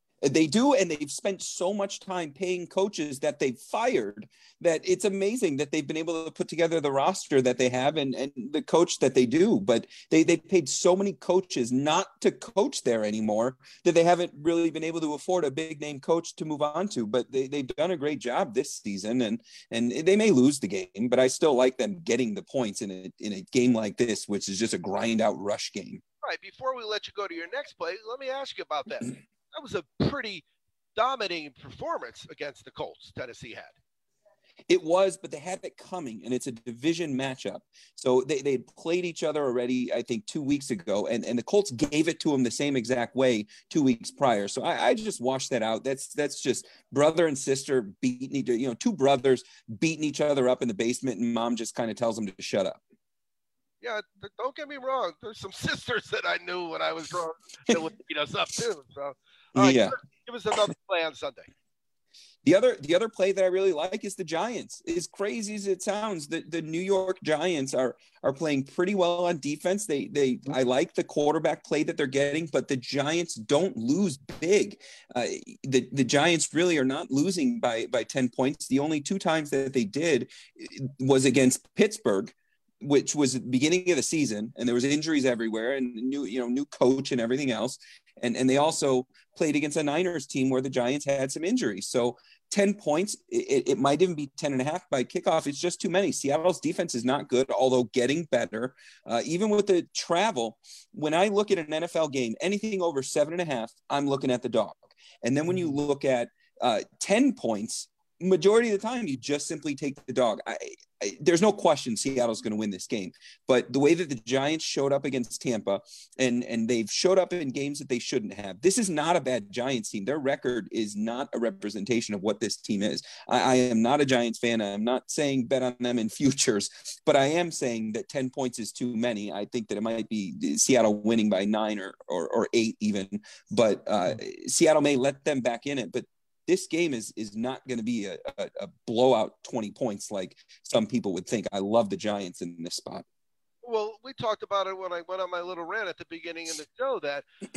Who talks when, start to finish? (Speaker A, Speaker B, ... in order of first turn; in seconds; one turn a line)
Speaker A: 0.2-26.0
Speaker B: 26.2-33.7
Speaker A: 34.7-52.8
Speaker B: 53.8-61.5
Speaker A: 59.5-60.0
Speaker A: 62.4-143.0
Speaker B: 143.6-147.2